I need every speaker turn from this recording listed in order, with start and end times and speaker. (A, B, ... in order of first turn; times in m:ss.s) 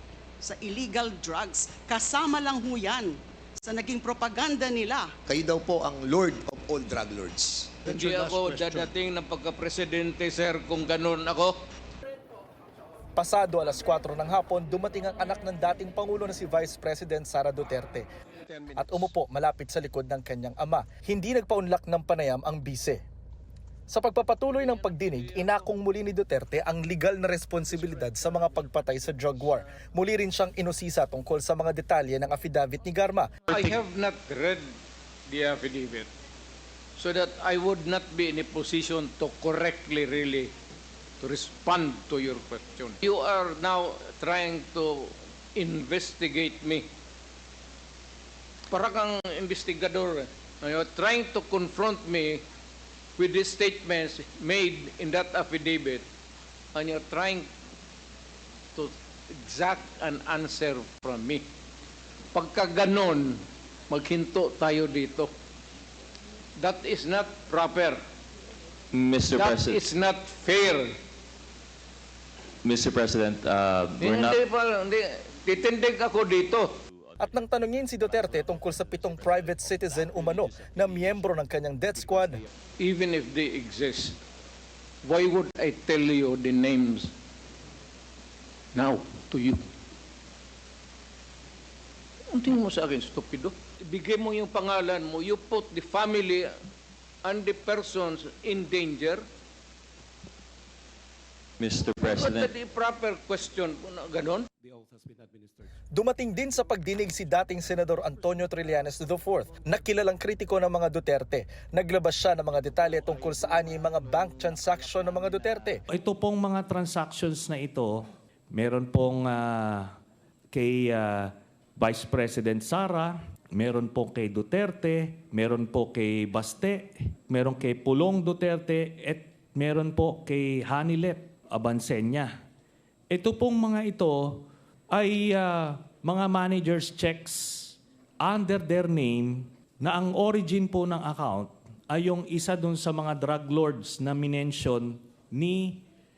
0:00.4-0:05.1 A
0:05.3-0:07.9 B
0:07.8-0:11.6 C
0:07.9-0:08.8 A
0:13.2-0:18.1 D
0:18.7-0:23.0 D
0:23.9-0:33.5 D
0:33.4-0:34.7 C
0:35.3-0:36.1 C
0:37.0-0:40.5 C
0:41.2-0:46.9 C
0:48.7-0:52.4 C
0:53.2-0:56.0 C
0:56.7-0:57.5 C
0:58.7-1:01.4 C
1:02.3-1:05.3 C
1:06.6-1:08.0 C
1:08.9-1:09.8 E
1:09.3-1:11.0 C
1:12.6-1:14.4 E
1:14.0-1:16.8 C
1:17.2-1:22.4 D
1:22.8-1:24.2 C
1:25.0-1:27.1 C
1:28.7-1:29.6 C
1:32.3-1:36.5 C
1:37.2-1:39.2 C
1:41.6-1:42.5 E
1:42.0-1:44.5 C
1:45.9-1:55.8 D
1:55.9-2:00.0 F
2:00.5-2:12.3 F
2:13.1-2:25.8 F